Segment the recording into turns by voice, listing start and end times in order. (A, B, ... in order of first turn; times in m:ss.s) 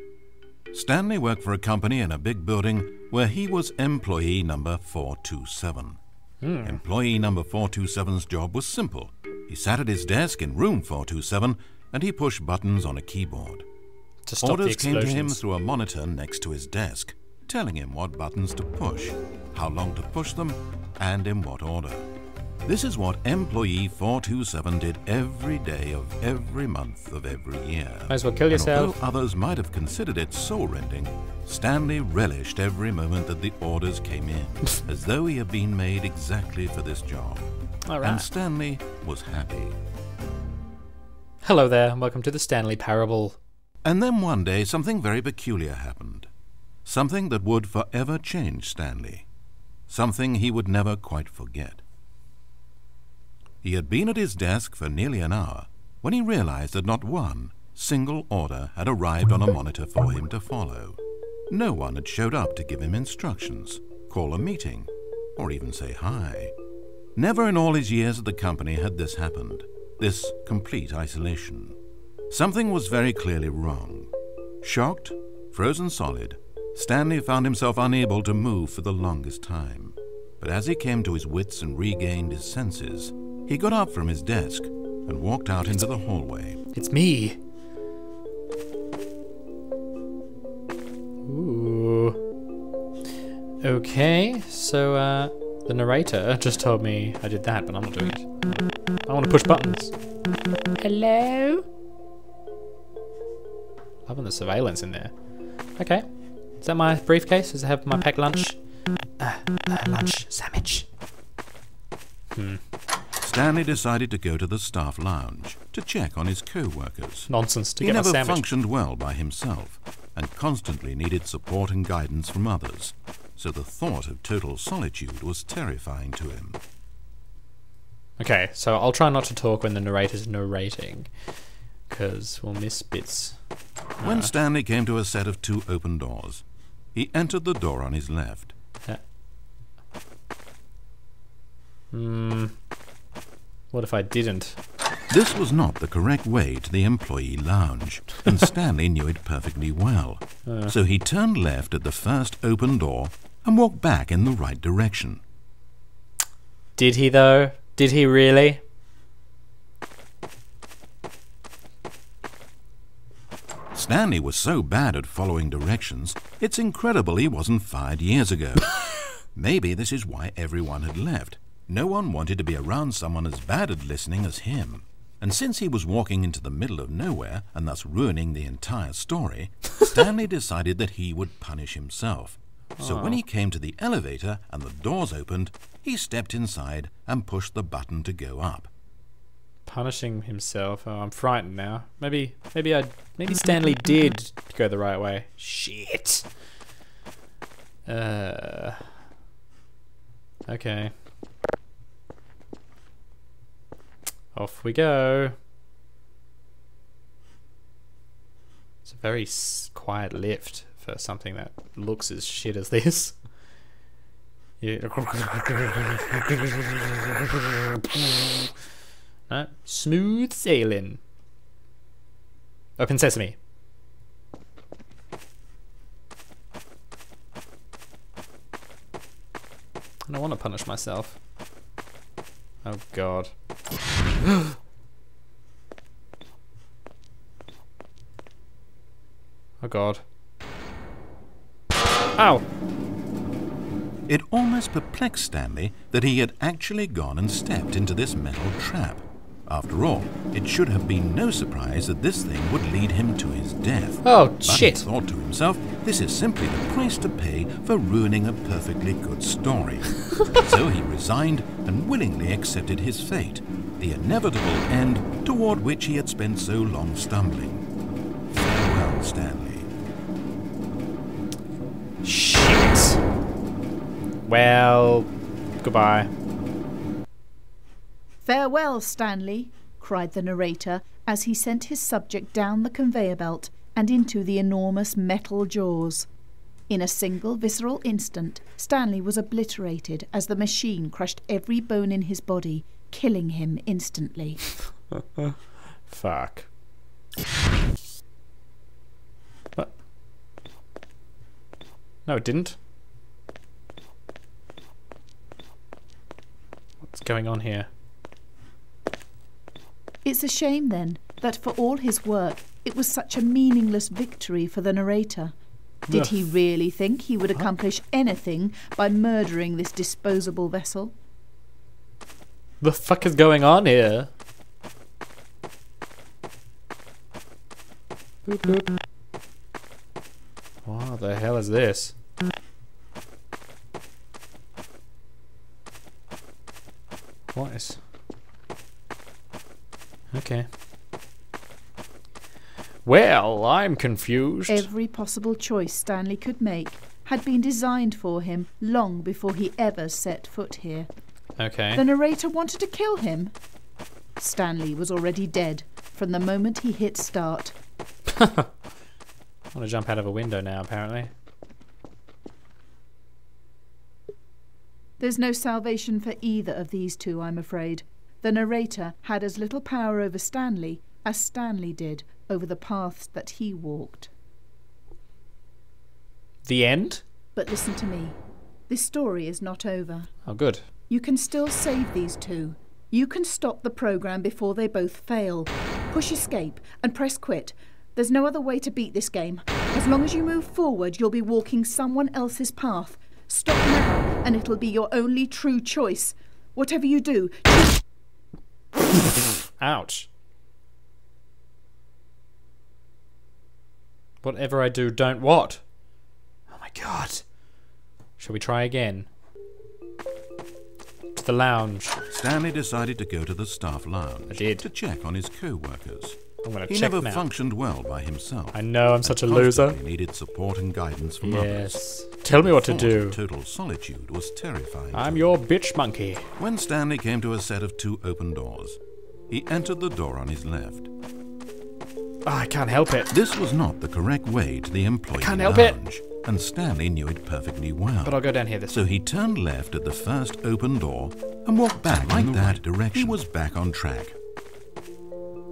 0:00.7-0:06.0 A
0:06.4-0:06.8 B
0:06.6-0:13.6 A
0:14.2-0:15.4 B
0:14.4-0:22.1 A
0:22.6-0:37.5 A
0:28.1-0:29.0 B
0:37.8-0:38.3 B
0:38.0-0:39.8 A
0:41.4-0:43.4 B
0:43.8-0:46.3 A
0:46.8-0:49.3 A
0:49.9-0:51.8 A
0:53.6-1:06.5 A
1:07.2-1:11.8 A
1:12.3-1:26.6 A
1:26.7-1:27.4 B
1:31.2-1:32.2 B
1:33.6-1:40.0 B
1:40.8-1:41.7 B
1:44.0-1:45.1 B
1:45.8-1:46.1 B
1:46.6-1:48.6 B
1:49.2-1:50.9 B
1:52.3-1:52.6 B
1:53.2-2:06.6 A
1:57.3-1:58.4 B
2:08.2-2:11.1 B
2:11.9-2:13.4 B
2:14.0-2:14.3 B
2:14.0-2:18.5 A
2:21.9-2:22.6 B
2:23.7-2:24.6 B
2:25.1-2:35.2 A
2:30.4-2:30.7 B
2:36.8-2:38.6 B
2:43.7-2:48.7 A
2:49.3-3:08.7 A
3:02.8-3:03.2 B
3:09.6-3:16.3 B
3:17.8-3:18.8 B
3:20.5-3:20.9 B
3:24.3-3:25.4 B
3:28.8-3:33.2 B
3:34.6-3:38.6 B
3:39.3-3:41.0 B
3:42.8-3:43.4 B
3:50.0-3:51.2 B
3:52.6-3:53.3 B
3:54.2-3:54.5 B
3:59.6-4:00.0 B
4:02.1-4:02.5 B
4:04.1-4:27.6 A
4:14.0-4:14.8 B
4:28.3-4:29.7 A
4:32.0-4:33.0 B
4:34.2-4:35.1 B
4:35.6-4:36.1 B
4:38.2-4:46.1 C
4:46.7-4:54.6 C
4:55.9-4:56.5 B
5:02.0-5:02.6 B
5:06.8-5:07.7 B
5:10.0-5:15.3 C
5:15.9-5:20.9 C
5:15.9-5:16.2 B
5:22.6-5:24.1 B
5:28.2-5:28.7 B
5:30.6-5:32.0 B
5:37.3-5:37.8 B
5:40.1-5:40.5 B
5:42.8-5:44.7 B
5:44.5-5:50.9 C
5:51.4-5:51.8 B
5:51.7-5:53.3 C
5:54.2-5:57.5 C
5:58.1-5:58.5 B
5:59.5-6:01.1 B
6:05.0-6:14.1 C
6:16.4-6:17.0 B
6:17.3-6:20.1 C
6:20.2-6:20.6 B
6:20.9-6:37.8 C
6:39.6-6:40.1 B
6:44.2-6:45.6 B
6:46.5-6:47.2 B
6:48.2-6:49.1 B
6:51.1-6:52.0 B
6:52.1-7:05.3 A
6:54.3-6:54.6 B
6:56.4-6:57.2 B
6:58.5-6:59.8 B
7:01.2-7:03.2 B
7:04.9-7:06.3 B
7:06.4-7:10.9 A
7:12.2-7:13.1 B
7:13.1-7:24.1 A
7:15.2-7:15.8 B
7:18.0-7:18.9 B
7:21.9-7:23.2 B